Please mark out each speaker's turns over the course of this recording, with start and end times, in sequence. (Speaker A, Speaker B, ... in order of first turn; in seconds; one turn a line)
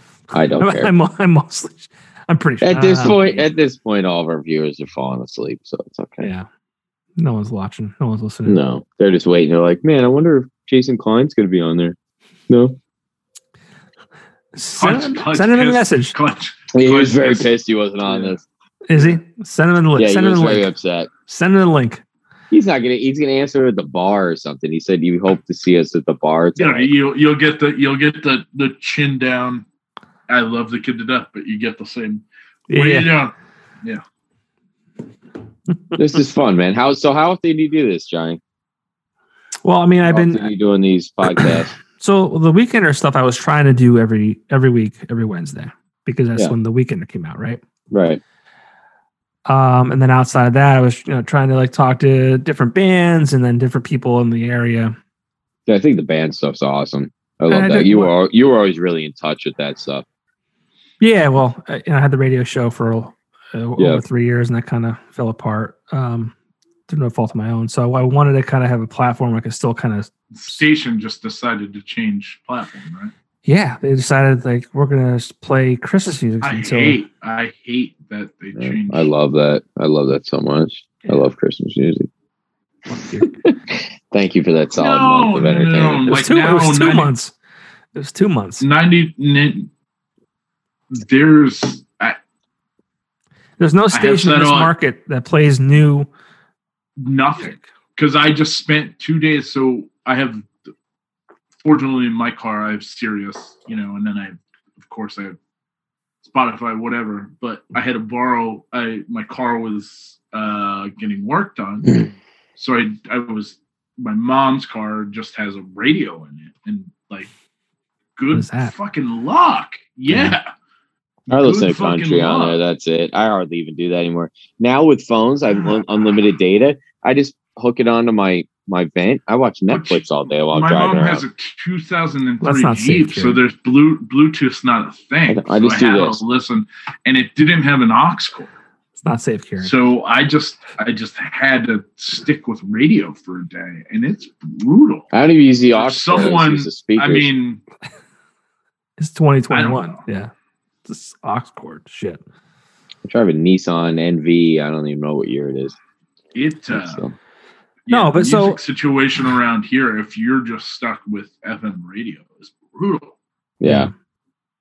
Speaker A: 0.3-0.9
Speaker B: 0.6-3.3
Speaker A: 2.6-6.3
Speaker B: 6.2-6.5
Speaker B: 7.2-8.6
Speaker A: 8.5-12.0
Speaker A: 12.5-12.8
Speaker B: 14.6-16.2
Speaker C: 14.8-17.5
Speaker A: 16.7-18.4
Speaker C: 18.1-18.4
Speaker B: 18.9-20.7
Speaker A: 20.0-21.1
Speaker B: 21.3-22.0
Speaker A: 22.5-26.9
Speaker C: 26.6-29.6
Speaker C: 30.3-34.0
Speaker B: 32.7-33.1
Speaker A: 36.0-38.4
Speaker B: 39.6-40.5
Speaker A: 40.1-41.8
Speaker B: 41.2-47.6
Speaker A: 47.9-48.2
Speaker B: 49.5-55.0
Speaker A: 55.7-60.0
Speaker B: 57.5-58.1
Speaker B: 61.0-66.3
Speaker A: 63.8-64.0
Speaker B: 66.9-70.1
Speaker C: 70.3-73.1
Speaker B: 73.5-77.0
Speaker C: 76.4-79.1
Speaker A: 78.6-82.1
Speaker B: 82.9-83.4
Speaker A: 83.4-86.2
Speaker C: 84.8-87.1
Speaker B: 86.1-87.3
Speaker B: 88.0-88.7
Speaker C: 88.6-89.7
Speaker C: 90.9-92.2
Speaker B: 93.6-96.1
Speaker C: 93.9-94.7
Speaker C: 97.0-100.5
Speaker C: 101.6-105.4
Speaker C: 106.2-117.3
Speaker C: 118.2-120.5
Speaker B: 118.3-118.7
Speaker B: 120.1-120.4
Speaker A: 121.3-131.2
Speaker C: 121.3-122.6
Speaker C: 129.7-138.5
Speaker B: 132.4-133.4
Speaker A: 135.3-136.2
Speaker B: 139.0-139.7
Speaker C: 139.6-145.1
Speaker A: 145.1-147.3
Speaker C: 145.7-147.6
Speaker B: 149.0-150.3
Speaker C: 149.5-150.0
Speaker B: 150.9-152.2
Speaker A: 153.1-155.8
Speaker C: 156.3-157.0
Speaker A: 156.7-157.2
Speaker C: 157.9-163.1
Speaker B: 157.9-158.6
Speaker A: 163.6-163.9
Speaker B: 163.6-163.9